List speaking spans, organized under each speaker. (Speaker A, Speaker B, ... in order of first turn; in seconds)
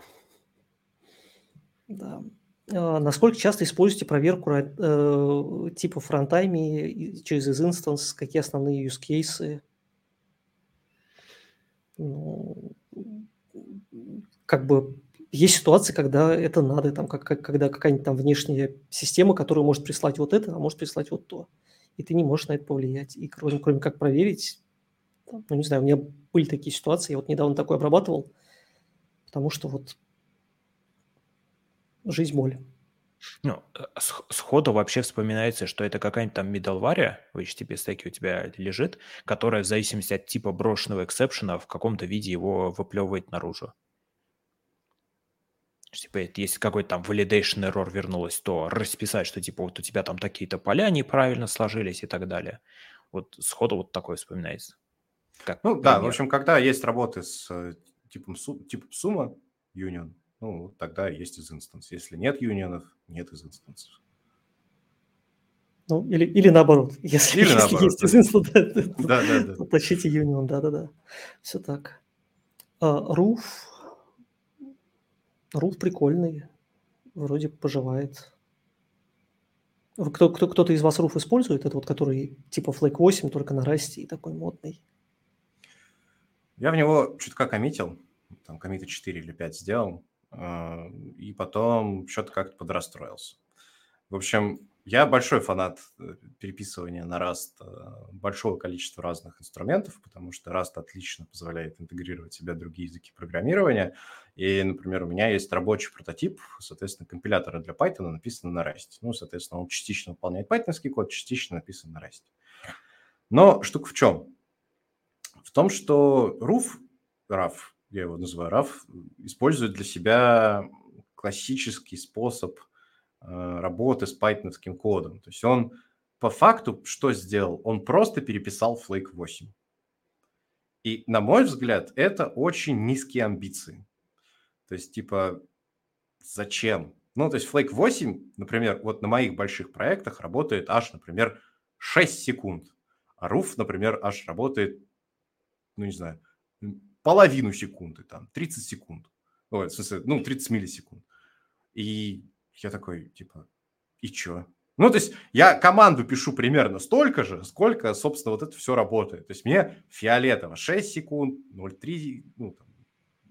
Speaker A: 1.9-9.6, 12.0-13.2, 13.9-24.6, 25.3-28.3, 29.3-29.9, 32.0-32.6, 65.9-72.0, 72.8-73.8, 75.5-76.5, 77.2-78.3, 80.0-84.8
Speaker B: 33.4-43.7, 45.9-52.6, 53.1-54.7, 55.4-56.2
Speaker C: 55.6-64.0, 67.3-68.2, 69.0-69.6, 86.6-93.4, 94.1-112.3, 113.3-114.3, 115.4-122.6, 123.2-129.5, 130.8-133.8, 134.7-135.4, 136.2-144.8, 145.8-151.0, 151.7-153.4, 154.0-162.6